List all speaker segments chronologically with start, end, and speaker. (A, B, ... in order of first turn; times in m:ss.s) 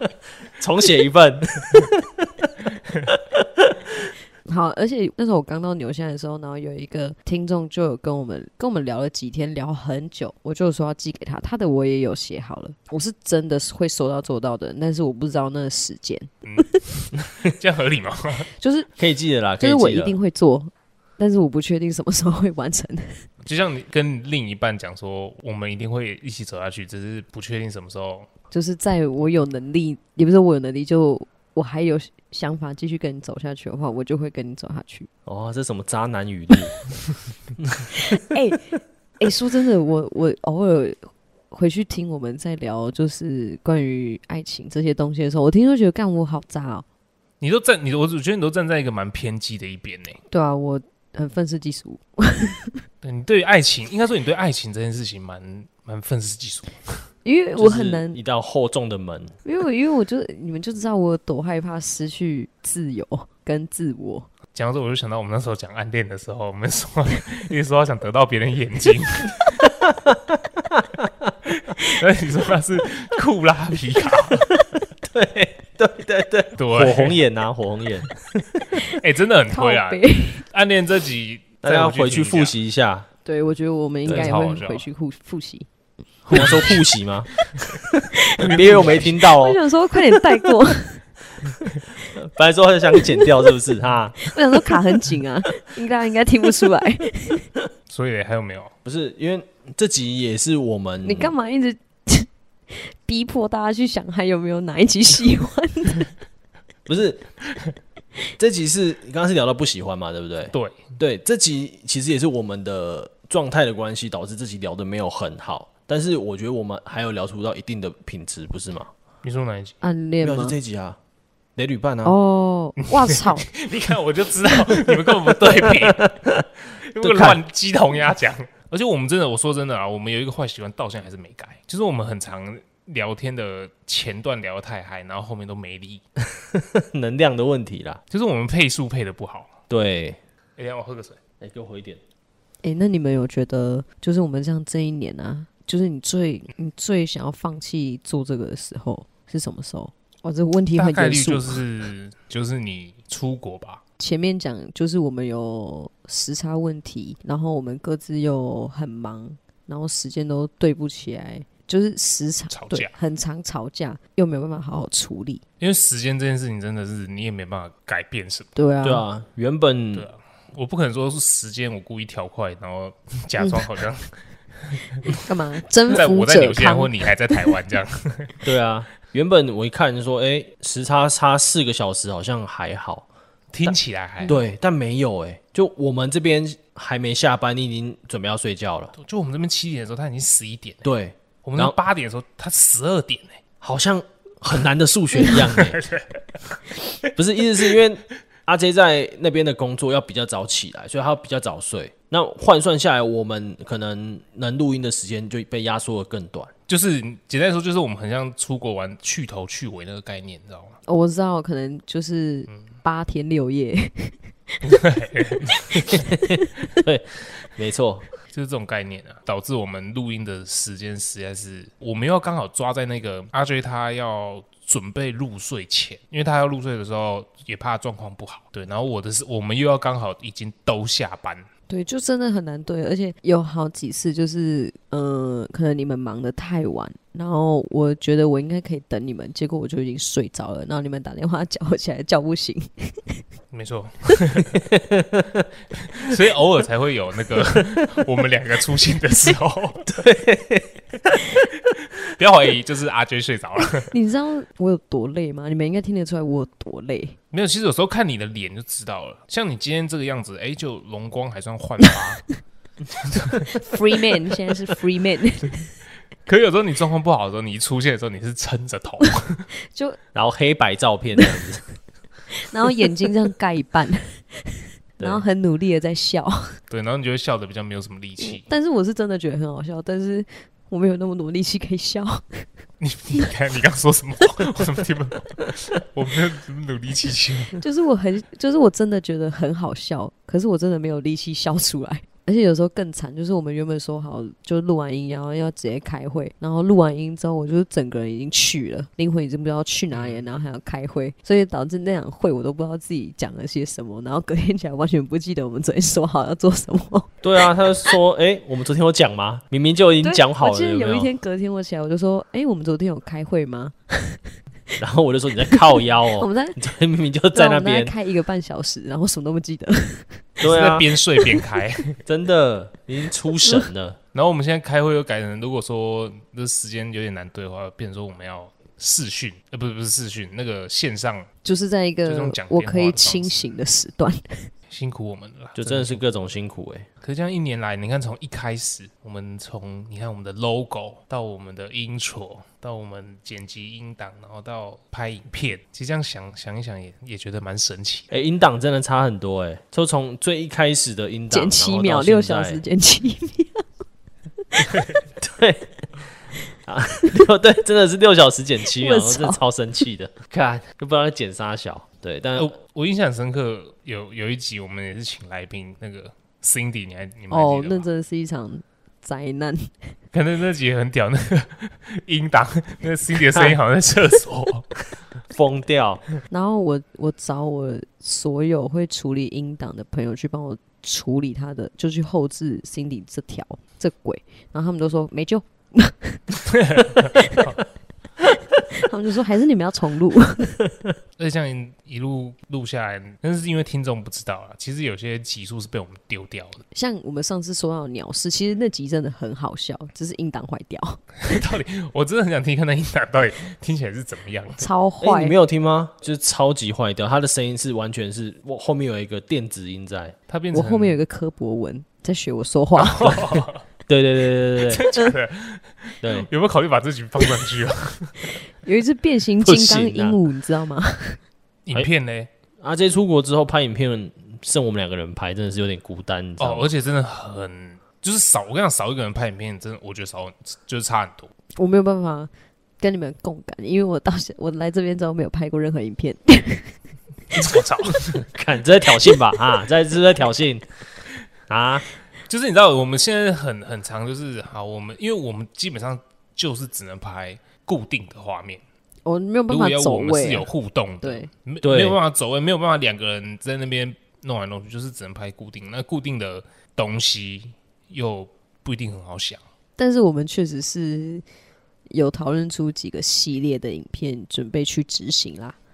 0:00.6-0:02.5 A
0:03.1-0:03.8 A
0:04.5-0:16.8 B
0:16.4-0:18.5 C
0:18.6-0:18.9 B
0:19.0-0:20.2 A
0:19.6-0:23.2 B
0:23.4-0:28.3 C
0:28.5-0:35.1 B
0:35.2-0:36.8 A
0:37.6-0:38.0 A
0:38.0-0:38.6 B
0:39.2-0:46.8 B
0:47.4-0:50.2 C
0:50.3-0:52.8 B
0:53.0-0:57.0 C
0:57.2-0:58.2 B
0:57.6-0:59.4 A
0:59.4-1:04.3 B
1:04.5-1:09.6 C
1:09.6-1:11.3 A
1:11.7-1:14.5 C
1:14.5-1:18.6 A
1:16.6-1:17.2 C
1:18.9-1:22.6 C
1:19.5-1:20.4 B
1:21.6-1:23.1 A
1:23.2-1:25.7 B
1:24.0-1:24.9 C
1:24.1-1:24.3 A
1:26.3-1:29.6 A
1:26.3-1:26.8 B
1:27.5-1:27.8 C
1:28.2-1:31.0 B
1:28.4-1:29.1 C
1:30.1-1:30.4 A
1:32.1-1:35.1 A
1:32.9-1:33.5 B
1:34.2-1:37.5 B
1:37.9-1:38.7 C
1:38.8-1:41.3 A
1:41.0-1:46.1 B
1:46.9-1:47.3 A
1:48.4-1:58.9 A
1:50.5-1:50.9 C
1:59.2-1:59.8 C
1:59.8-2:00.6 B
2:00.2-2:01.0 A
2:01.6-2:02.1 A
2:02.0-2:03.5 B
2:02.8-2:06.1 C
2:05.4-2:06.4 A
2:06.7-2:16.0 C
2:07.0-2:07.4 A
2:16.4-2:18.0 A
2:18.1-2:19.5 C
2:19.7-2:20.2 A
2:20.6-2:21.2 C
2:21.4-2:22.0 A
2:22.6-2:31.6 B
2:30.7-2:33.8 C
2:34.0-2:45.4 B
2:42.5-2:42.9 C
2:45.6-2:48.5 C
2:48.6-2:49.0 B
2:48.8-2:50.1 A
2:49.9-2:55.2 C
2:53.4-2:53.7 B
2:55.1-2:57.5 B
2:55.9-2:58.3 C
2:58.4-3:03.1 A
3:03.5-3:04.4 C
3:04.3-3:08.9 A
3:09.0-3:10.9 C
3:10.8-3:11.8 A
3:11.4-3:13.4 C
3:13.6-3:15.8 A
3:15.3-3:16.2 C
3:17.2-3:26.5 A
3:26.7-3:30.8 C
3:30.9-3:34.6 B
3:34.6-3:36.1 C
3:35.7-3:38.1 A
3:38.3-3:51.5 C
3:51.7-4:03.2 B
4:03.5-4:04.6 C
4:04.6-4:05.5 A
4:06.0-4:09.9 C
4:09.9-4:11.2 A
4:12.1-4:13.9 C
4:13.9-4:17.2 B
4:17.3-4:22.2 C
4:23.1-4:23.5 C
4:23.6-4:25.7 B
4:26.2-4:29.5 C
4:29.7-4:30.0 B
4:30.1-4:31.6 A
4:31.2-4:31.5 B
4:32.4-4:36.6 B
4:36.7-4:38.5 C
4:38.2-4:42.5 B
4:42.8-4:47.6 C
4:47.5-5:07.2 B
4:59.9-5:00.2 C
5:07.2-5:11.1 A
5:10.0-5:14.2 B
5:14.8-5:17.9 A
5:15.4-5:16.6 B
5:17.3-5:20.2 B
5:20.4-5:20.9 A
5:20.4-5:22.0 C
5:22.1-5:24.0 A
5:24.1-5:31.3 C
5:31.4-5:34.5 B
5:32.0-5:33.4 C
5:34.7-5:36.0 C
5:35.6-5:36.9 A
5:37.0-5:48.1 C
5:48.1-5:52.6 A
5:51.3-5:53.6 B
5:54.7-5:55.0 C
5:55.2-5:55.7 A
5:56.6-6:02.5 A
5:58.7-5:59.4 B
6:02.4-6:07.9 C
6:07.3-6:09.7 B
6:10.1-6:14.7 C
6:15.3-6:16.0 A
6:16.3-6:26.2 B
6:26.5-6:27.6 C
6:27.2-6:27.4 B
6:28.7-6:30.6 B
6:31.2-6:36.6 C
6:36.7-6:41.2 B
6:41.2-6:44.6 C
6:44.6-6:45.4 B
6:45.0-6:50.1 A
6:50.3-6:51.0 C
6:50.5-6:53.2 B
6:52.8-6:53.6 C
6:53.9-6:54.9 A
6:54.6-6:58.3 C
6:56.0-6:56.3 A
6:58.6-7:01.2 B
6:59.4-7:00.2 A
7:01.6-7:02.3 C
7:02.6-7:06.7 A
7:06.4-7:11.3 C
7:11.6-7:16.8 B
7:17.4-7:18.2 C
7:18.0-7:20.7 A
7:21.5-7:21.9 A
7:22.3-7:28.6 C
7:29.0-7:30.5 B
7:29.5-7:39.4 C
7:31.0-7:31.3 B
7:31.6-7:32.0 A
7:39.8-7:41.2 B
7:41.9-7:45.6 B